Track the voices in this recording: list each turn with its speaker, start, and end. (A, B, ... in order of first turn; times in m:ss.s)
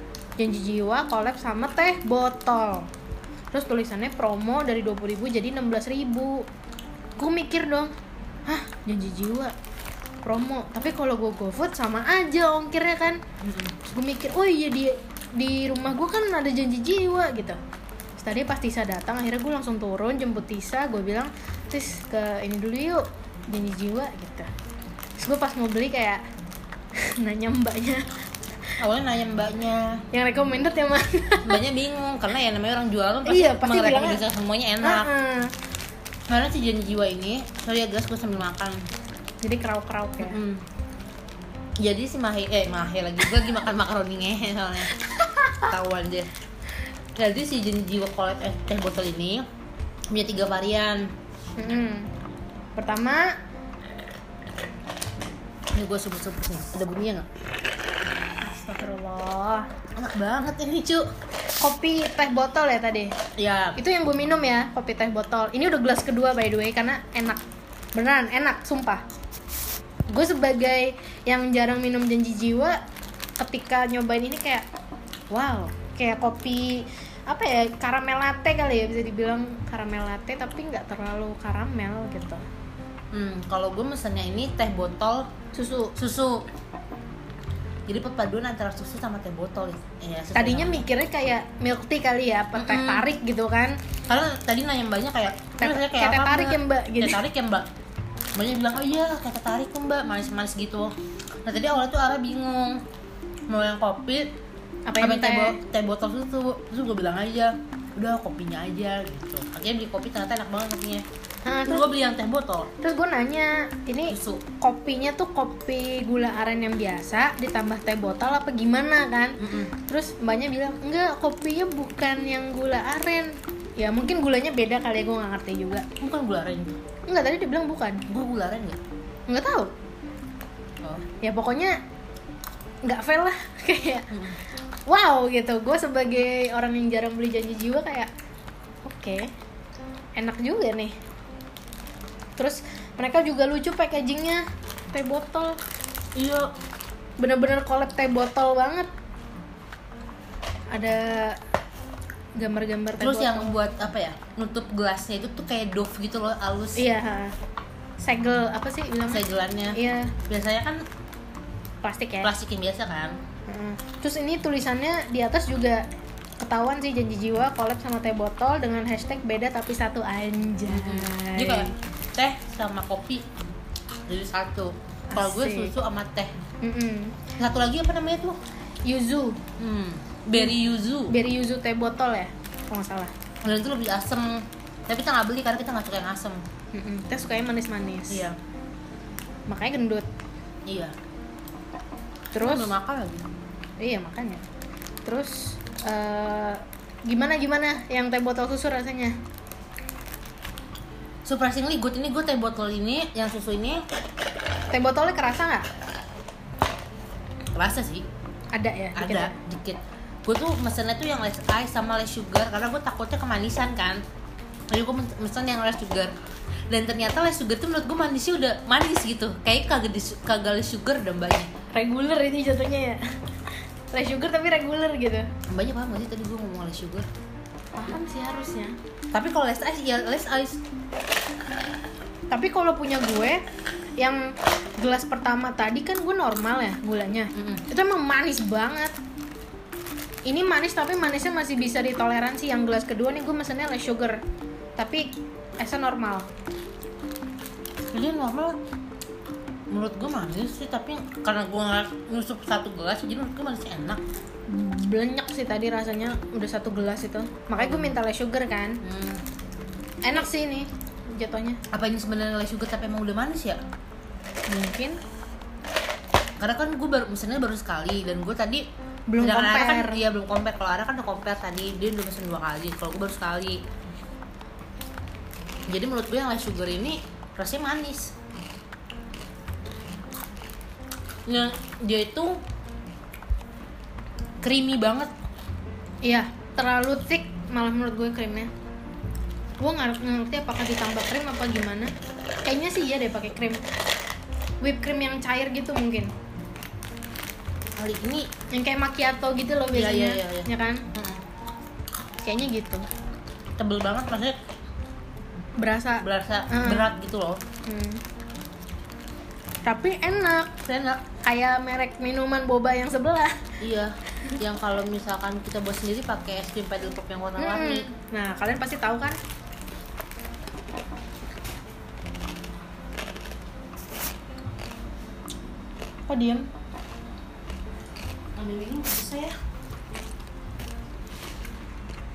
0:00.4-0:02.9 A
0:03.5-0:06.5 A
0:07.2-0:07.9 A
0:08.5-0:09.5 A
0:10.2-0:13.2 A
0:13.4-0:13.7 B
0:13.8-0:17.6 A
0:18.2-0:24.5 A
0:25.2-0:26.2 A
0:27.0-0:28.0 A
0:28.8-0:30.0 B
0:30.1-0:31.6 A
0:31.4-0:35.1 B
0:33.2-0:34.2 A
0:34.8-0:35.5 A
0:36.3-0:38.8 B
0:39.4-0:40.4 A
0:40.2-0:40.6 B
0:41.8-0:44.9 B
0:45.3-0:45.7 A
0:45.6-0:46.3 B
0:47.2-0:49.5 B
0:50.1-0:51.1 B
0:51.6-0:52.1 A
0:52.8-0:53.3 A
0:55.7-0:57.3 B
0:58.4-0:59.7 A
1:00.0-1:01.1 B
1:01.6-1:03.1 A
1:03.4-1:03.8 B
1:03.8-1:07.4 A
1:08.0-1:09.0 A
1:10.1-1:12.8 A
1:13.4-1:14.6 A
1:15.3-1:22.4 A
1:23.1-1:25.3 B
1:25.5-1:25.9 A
1:26.0-1:26.5 B
1:27.9-1:30.8 B
1:30.3-1:33.7 A
1:32.5-1:33.1 B
1:34.1-1:37.7 B
1:35.6-1:37.2 A
1:38.4-1:40.9 B
1:41.4-1:42.8 B
1:43.5-1:44.3 B
1:44.9-1:45.6 A
1:45.0-1:51.0 B
1:51.4-1:51.9 A
1:51.6-1:52.7 B
1:52.8-2:05.8 A
1:54.1-1:54.4 B
1:59.4-1:59.7 B
2:06.0-2:06.8 B
2:07.1-2:08.0 A
2:08.1-2:08.8 B
2:09.3-2:09.7 A
2:11.2-2:11.7 A
2:12.8-2:14.1 A
2:14.1-2:14.4 B
2:14.9-2:18.1 A
2:18.8-2:19.3 A
2:20.2-2:20.9 A
2:22.4-2:25.6 A
2:26.2-2:26.5 B
2:27.2-2:28.9 A
2:30.7-2:31.4 A
2:32.4-2:33.5 A
2:33.0-2:36.8 B
2:36.8-2:37.3 A
2:38.0-2:39.2 A
2:39.1-2:40.8 B
2:39.7-2:40.1 A
2:41.8-2:42.3 A
2:42.2-2:43.2 B
2:43.5-2:45.8 A
2:46.4-2:51.7 A
2:50.7-2:53.2 B
2:54.1-2:56.3 B
2:55.1-2:55.7 A
2:56.6-2:57.3 A
2:57.4-2:58.4 B
2:58.8-2:59.4 A
2:59.6-3:01.2 B
3:01.1-3:03.1 A
3:03.4-3:06.4 B
3:06.7-3:08.3 A
3:08.1-3:08.4 B
3:09.5-3:10.1 A
3:10.7-3:10.9 B
3:12.3-3:12.7 A
3:12.3-3:13.2 B
3:13.8-3:14.4 A
3:15.0-3:19.1 A
3:21.2-3:23.8 B
3:24.7-3:25.7 A
3:27.6-3:28.0 B
3:28.5-3:29.3 A
3:29.0-3:34.0 B
3:34.7-3:36.1 B
3:36.7-3:41.5 B
3:41.7-3:43.0 A
3:43.9-3:45.3 A
3:45.5-3:47.1 B
3:47.7-3:48.8 A
3:49.1-3:50.6 B
3:52.3-3:53.4 A
3:54.0-3:58.9 A
3:57.3-3:57.6 B
4:00.2-4:04.2 A
4:04.8-4:05.1 A
4:05.6-4:06.3 A
4:07.9-4:08.6 B
4:09.7-4:14.0 B
4:14.5-4:18.8 A
4:17.6-4:17.9 B
4:18.8-4:19.2 B
4:20.0-4:21.6 A
4:21.7-4:23.6 B
4:24.5-4:25.0 A
4:26.4-4:28.6 B
4:29.1-4:30.0 A
4:29.2-4:33.6 B
4:35.7-4:38.1 B
4:41.3-4:42.4 B
4:44.4-4:45.1 B
4:46.0-4:48.5 A
4:49.6-4:51.9 A
4:52.4-4:53.6 A
4:54.6-4:56.1 A
4:57.8-4:58.3 B
4:58.5-5:00.8 A
4:59.7-5:01.2 B
5:02.2-5:02.8 A
5:03.6-5:04.4 B
5:05.6-5:06.8 A
5:06.0-5:07.4 B
5:07.6-5:08.0 A
5:09.6-5:10.5 A
5:10.6-5:11.0 B
5:11.2-5:13.4 A
5:13.6-5:17.9 B
5:17.4-5:19.2 A
5:26.1-5:26.5 A
5:28.4-5:29.4 B